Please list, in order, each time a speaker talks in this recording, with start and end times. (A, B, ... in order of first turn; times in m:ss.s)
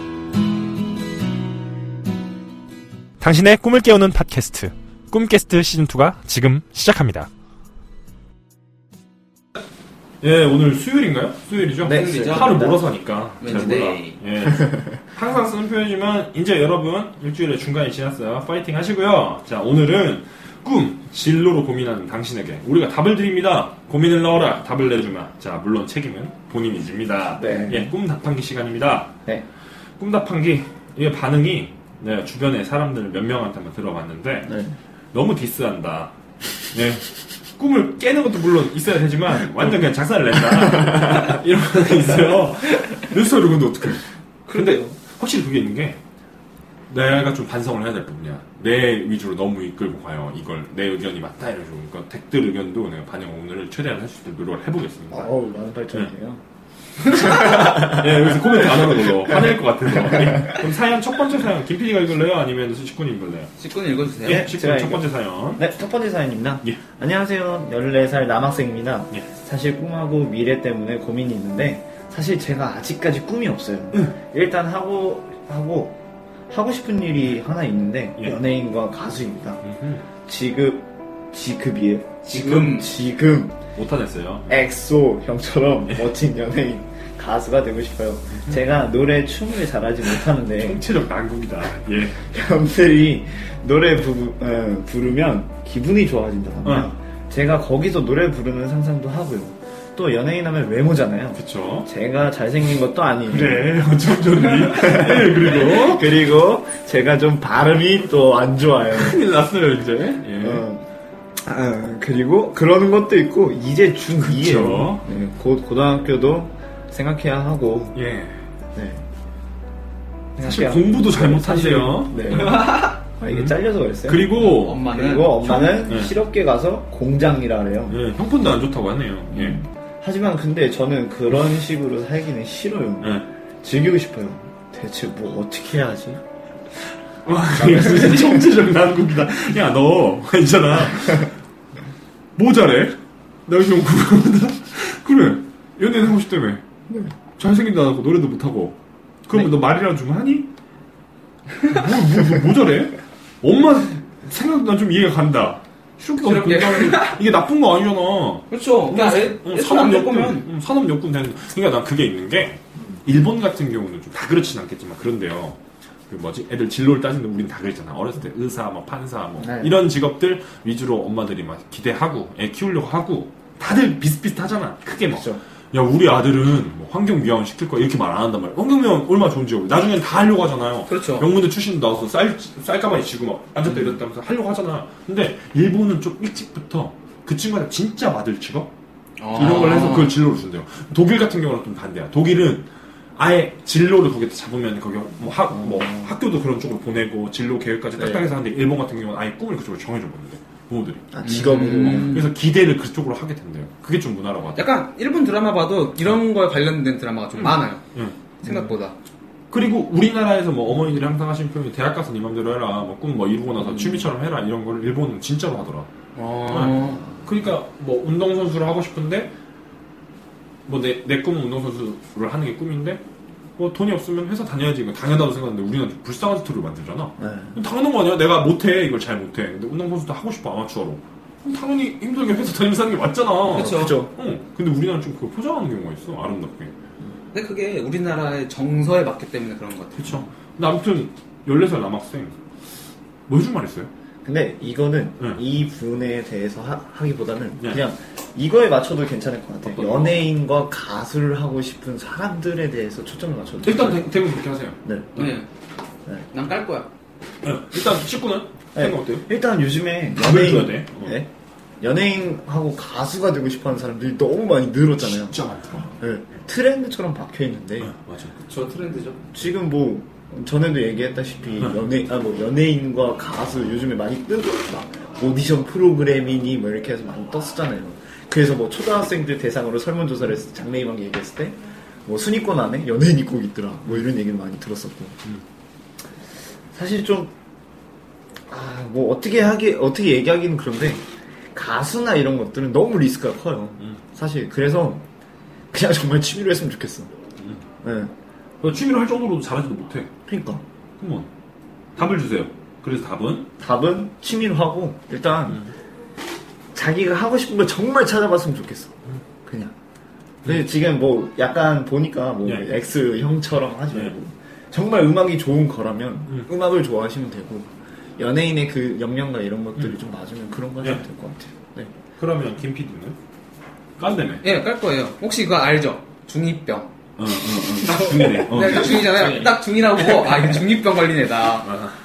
0:03.2-0:07.3 A
0:10.2-0:29.1 A
0:11.8-0:12.8 B
0:11.9-0:12.6 C
0:13.4-0:14.2 C
0:27.4-0:27.9 B
0:30.0-0:34.5 A
0:34.4-0:34.8 B
0:35.1-0:36.1 A
0:36.7-0:46.0 A
0:44.5-0:44.9 C
0:46.9-0:55.3 A
0:55.1-0:56.4 B
0:57.0-1:03.5 A
0:57.1-1:00.6 B
1:03.6-1:04.5 C
1:04.2-1:05.6 A
1:04.2-1:16.0 B
1:16.5-1:19.6 B
1:19.6-1:20.0 A
1:20.2-1:23.6 B
1:22.2-1:22.9 C
1:23.7-1:24.6 A
1:24.5-1:30.8 B
1:28.3-1:28.6 A
1:30.5-1:32.2 A
1:32.2-1:43.8 B
1:36.6-1:36.9 A
1:41.3-1:41.9 A
1:43.3-1:46.2 A
1:44.5-1:49.2 B
1:48.9-1:50.6 A
1:50.4-1:50.9 B
1:51.4-1:58.0 B
1:54.1-1:55.0 A
1:57.9-1:58.5 A
1:58.7-1:59.0 B
2:00.4-2:08.0 B
2:00.4-2:04.9 A
2:02.3-2:03.0 C
2:04.4-2:05.6 C
2:05.4-2:06.1 A
2:07.9-2:09.6 A
2:09.3-2:16.2 B
2:13.0-2:13.3 A
2:17.2-2:21.4 A
2:17.6-2:18.6 B
2:22.4-2:26.6 A
2:27.4-2:30.5 A
2:31.6-3:08.7 A
2:36.2-2:37.2 C
2:38.5-2:40.5 C
2:49.4-2:49.8 B
2:55.1-2:55.4 B
3:00.9-3:01.3 C
3:09.2-3:10.1 C
3:09.3-3:24.7 A
3:15.5-3:16.1 B
3:18.0-3:18.3 B
3:21.1-3:22.2 B
3:21.2-3:22.3 C
3:24.5-3:27.8 C
3:27.4-3:28.2 A
3:28.4-3:29.0 C
3:28.4-3:28.7 B
3:29.5-3:35.9 A
3:36.1-3:37.0 C
3:36.5-3:39.3 A
3:40.7-3:43.0 A
3:43.6-3:56.7 A
3:47.2-3:47.6 B
3:53.5-3:54.0 C
3:53.5-3:54.1 B
3:57.3-4:00.1 C
4:00.0-4:02.3 A
4:03.3-4:03.9 A
4:04.2-4:14.1 B
4:09.6-4:10.2 A
4:13.6-4:15.3 A
4:14.8-4:15.2 B
4:15.2-4:15.5 C
4:16.3-4:16.9 C
4:17.4-4:19.3 A
4:18.7-4:25.4 B
4:20.2-4:21.2 A
4:25.0-4:25.9 A
4:26.0-4:27.9 B
4:27.8-4:28.4 A
4:28.5-4:29.2 C
4:29.3-4:45.2 B
4:46.7-4:47.3 B
4:48.5-4:55.0 B
4:55.7-4:57.1 B
4:57.8-4:58.1 B
4:58.6-5:00.1 A
5:00.3-5:00.6 B
5:01.0-5:01.3 A
5:02.0-5:03.5 A
5:03.6-5:05.6 B
5:06.7-5:08.9 B
5:09.4-5:09.7 B
5:10.4-5:21.9 B
5:10.4-5:10.7 A
5:22.2-5:23.2 A
5:24.0-5:24.4 A
5:24.4-5:31.7 C
5:27.2-5:30.5 A
5:31.6-5:32.0 A